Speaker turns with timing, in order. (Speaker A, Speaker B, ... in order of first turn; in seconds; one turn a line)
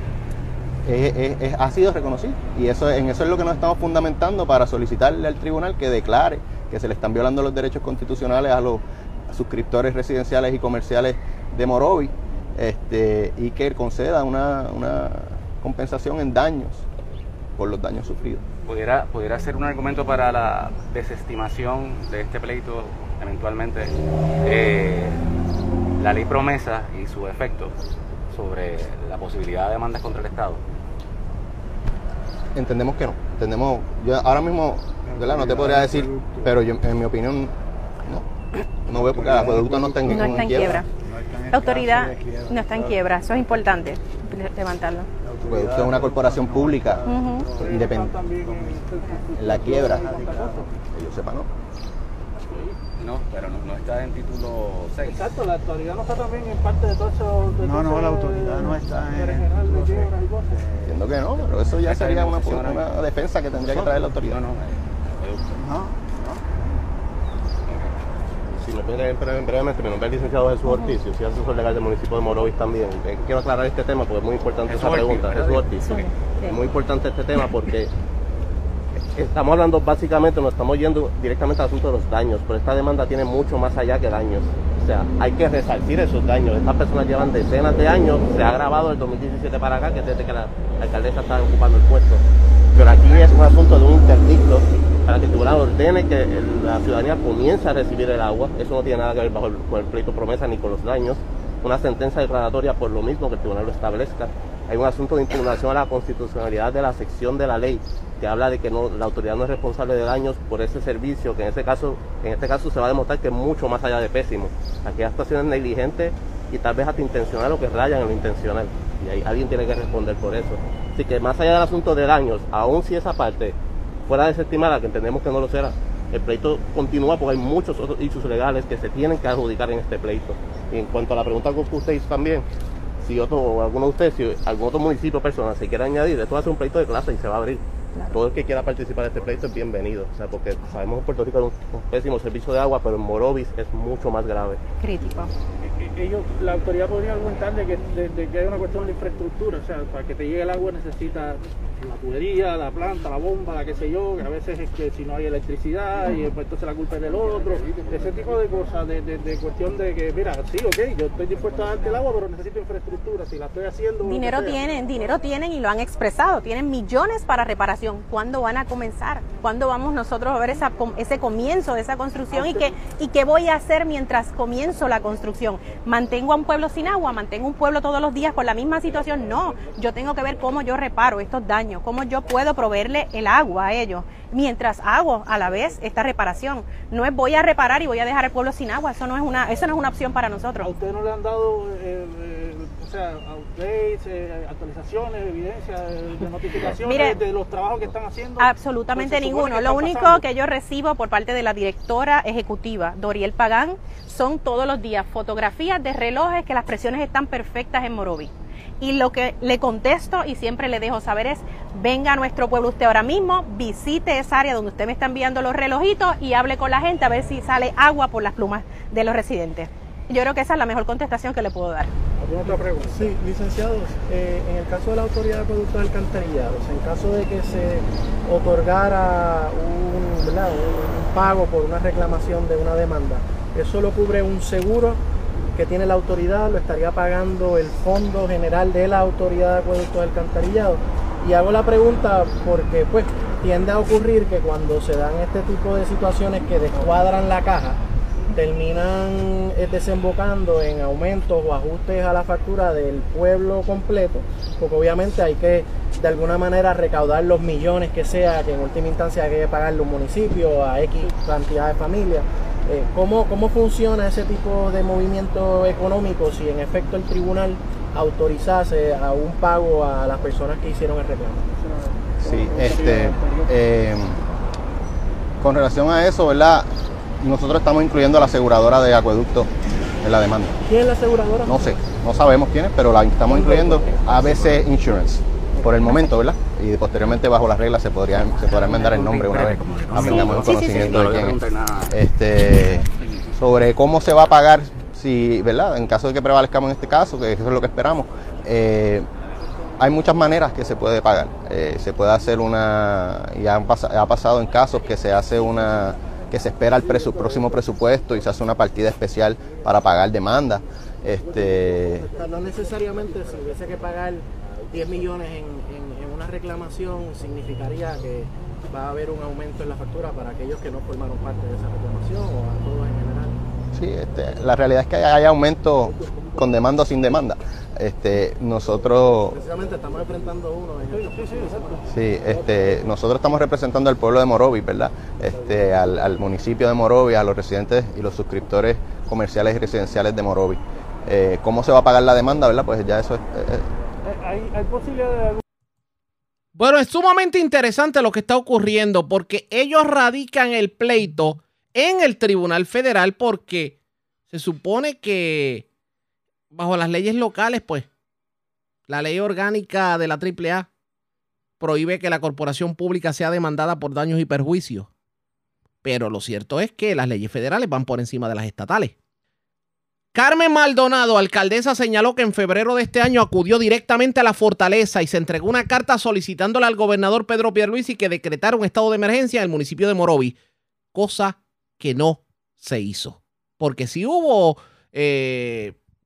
Speaker A: 0.8-16.9
Speaker A: 17.6-18.4
Speaker B: 18.6-25.2
Speaker B: 26.0-27.8
Speaker B: 28.3-30.6
Speaker A: 32.5-38.3
Speaker A: 38.9-40.8
Speaker C: 40.0-40.9
Speaker C: 41.5-45.1
Speaker A: 45.4-47.0
Speaker C: 47.0-47.5
Speaker D: 47.6-50.7
Speaker A: 47.6-48.1
Speaker A: 49.4-50.1
Speaker A: 50.9-51.5
Speaker D: 52.4-52.8
Speaker B: 53.0-55.3
Speaker D: 55.1-60.6
Speaker A: 60.8-64.4
Speaker B: 61.8-62.9
Speaker B: 63.6-65.6
Speaker E: 68.5-77.9
Speaker B: 74.7-76.1
Speaker E: 78.9-123.5
Speaker E: 124.1-132.5
Speaker E: 133.0-144.6
Speaker D: 145.6-164.7
Speaker C: 164.0-190.7
Speaker D: 172.3-172.7
Speaker D: 190.6-200.2
Speaker C: 196.6-197.2
Speaker C: 198.4-221.9
Speaker D: 222.2-223.2
Speaker F: 222.4-235.0
Speaker F: 235.5-247.8
Speaker F: 248.3-271.5
Speaker D: 271.6-273.5
Speaker A: 272.2-274.2
Speaker A: 275.4-280.6
Speaker F: 280.6-281.8
Speaker A: 281.4-299.1
Speaker F: 283.2-284.2
Speaker B: 283.4-284.4
Speaker B: 288.4-291.9
Speaker A: 299.8-312.1
Speaker F: 312.1-323.4
Speaker A: 323.7-329.4
Speaker F: 329.3-331.7
Speaker D: 330.9-331.8
Speaker A: 331.9-343.7
Speaker D: 344.0-345.4
Speaker G: 346.5-353.8
Speaker G: 354.3-355.6
Speaker G: 356.5-357.9
Speaker G: 358.9-360.7
Speaker G: 361.6-364.9
Speaker G: 365.8-368.9
Speaker G: 370.1-380.4
Speaker G: 380.9-385.8